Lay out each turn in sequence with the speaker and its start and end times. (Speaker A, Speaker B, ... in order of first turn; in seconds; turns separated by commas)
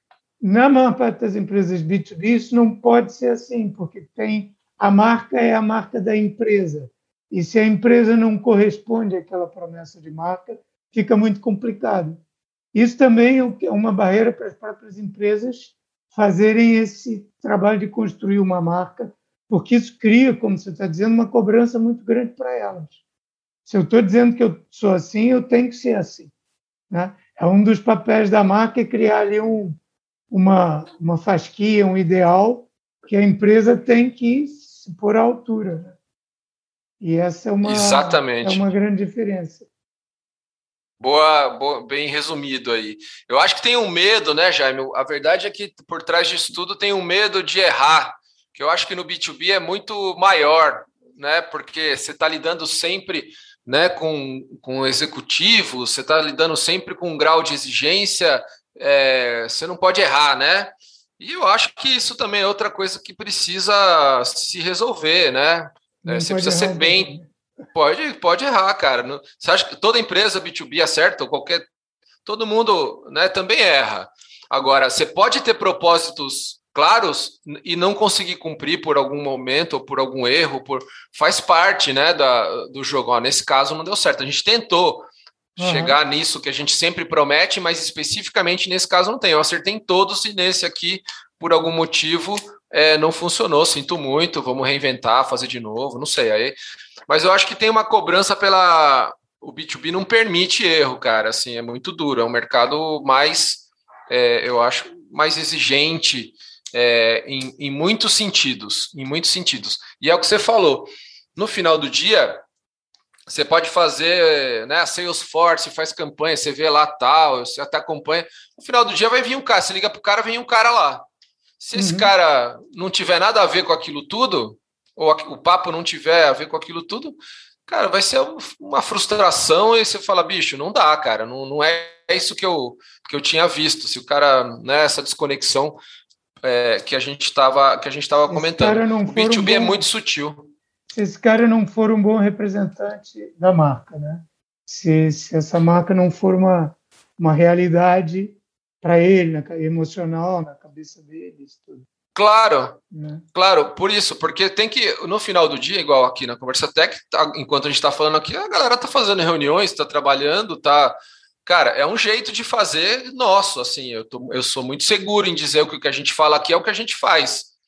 Speaker A: 0.4-12.2, Speaker A: 12.7-23.0, Speaker A: 23.6-26.3, Speaker A: 26.9-29.8, Speaker A: 30.3-36.0, Speaker A: 37.0-39.7, Speaker B: 37.6-38.7, Speaker B: 41.0-67.1, Speaker A: 66.0-67.3, Speaker B: 67.7-71.7, Speaker B: 72.2-96.5, Speaker A: 85.6-86.0, Speaker B: 97.1-112.4, Speaker B: 113.3-121.0, Speaker B: 121.6-135.8, Speaker A: 121.8-122.1, Speaker B: 136.4-140.5, Speaker A: 138.3-139.8, Speaker A: 140.9-151.9, Speaker B: 152.1-152.8, Speaker A: 152.9-153.2, Speaker B: 153.3-167.5